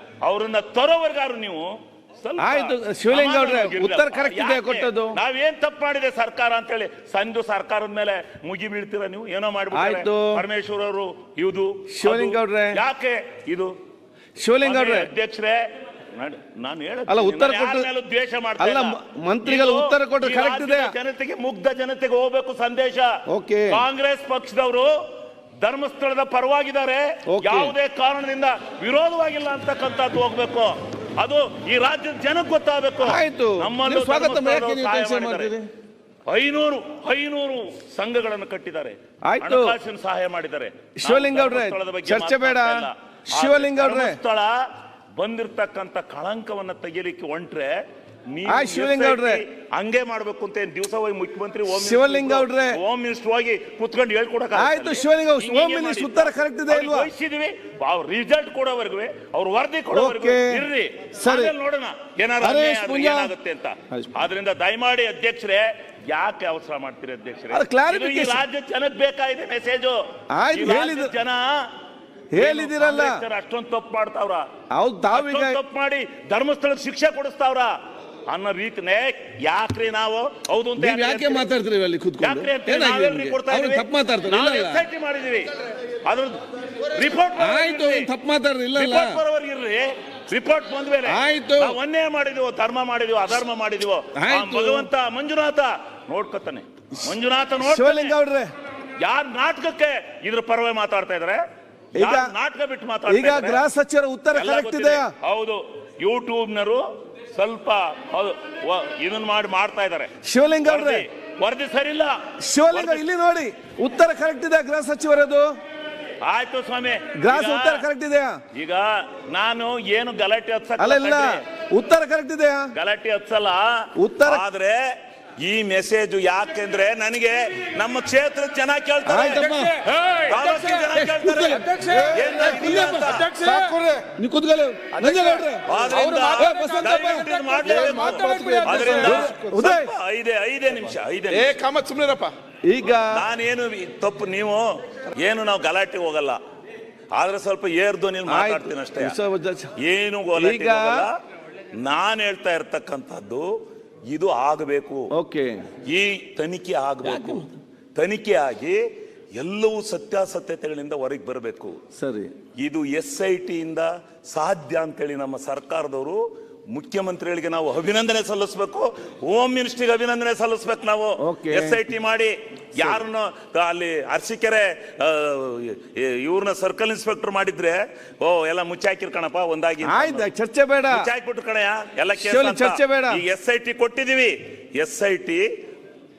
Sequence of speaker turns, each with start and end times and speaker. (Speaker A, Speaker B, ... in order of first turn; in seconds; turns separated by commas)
Speaker A: 0.2-13.7, Speaker B: 2.4-5.2, Speaker B: 9.7-10.4, Speaker B: 11.9-12.8, Speaker B: 14.4-15.1, Speaker A: 14.6-23.1, Speaker B: 17.1-17.9, Speaker B: 18.6-20.9, Speaker B: 23.3-23.8, Speaker A: 23.7-25.0, Speaker A: 25.6-35.5, Speaker B: 27.3-27.7, Speaker B: 33.0-35.7, Speaker A: 36.3-44.6, Speaker B: 39.3-39.8, Speaker B: 41.0-44.2, Speaker A: 45.2-70.0, Speaker B: 48.5-49.4, Speaker B: 51.7-52.8, Speaker B: 54.5-57.1, Speaker B: 59.9-60.6, Speaker B: 61.2-61.5, Speaker B: 62.4-63.3, Speaker B: 67.5-68.4, Speaker B: 70.3-71.1, Speaker A: 70.5-71.7, Speaker B: 72.3-73.2, Speaker A: 72.3-74.5, Speaker B: 74.7-75.6, Speaker A: 75.1-77.7, Speaker A: 78.3-81.5, Speaker B: 80.8-84.8, Speaker A: 82.2-85.5, Speaker A: 86.0-88.1, Speaker B: 87.4-89.2, Speaker A: 88.7-98.1, Speaker B: 91.0-91.8, Speaker B: 94.2-94.9, Speaker B: 97.0-98.5, Speaker A: 99.0-101.4, Speaker B: 102.0-102.3, Speaker A: 102.0-103.6, Speaker B: 103.1-105.1, Speaker A: 104.3-110.1, Speaker B: 110.2-111.0, Speaker A: 110.6-113.0, Speaker B: 112.4-115.5, Speaker A: 116.2-117.9, Speaker B: 117.2-118.4, Speaker A: 118.5-121.4, Speaker B: 120.8-122.7, Speaker A: 122.7-133.3, Speaker B: 124.0-124.4, Speaker B: 129.1-129.8, Speaker B: 130.4-139.9, Speaker C: 131.8-134.1, Speaker A: 134.9-141.6, Speaker C: 135.0-139.7, Speaker C: 141.3-142.3, Speaker B: 142.7-143.2, Speaker A: 143.1-146.4, Speaker A: 147.2-149.2, Speaker B: 148.3-149.7, Speaker A: 149.8-151.1, Speaker B: 150.3-151.1, Speaker A: 151.7-153.6, Speaker A: 154.1-155.1, Speaker B: 155.1-155.7, Speaker A: 155.8-158.8, Speaker B: 157.0-157.5, Speaker A: 159.3-161.8, Speaker B: 161.9-162.3, Speaker A: 162.6-180.3, Speaker B: 171.2-171.8, Speaker B: 179.8-181.1, Speaker A: 180.9-185.5, Speaker B: 182.2-183.2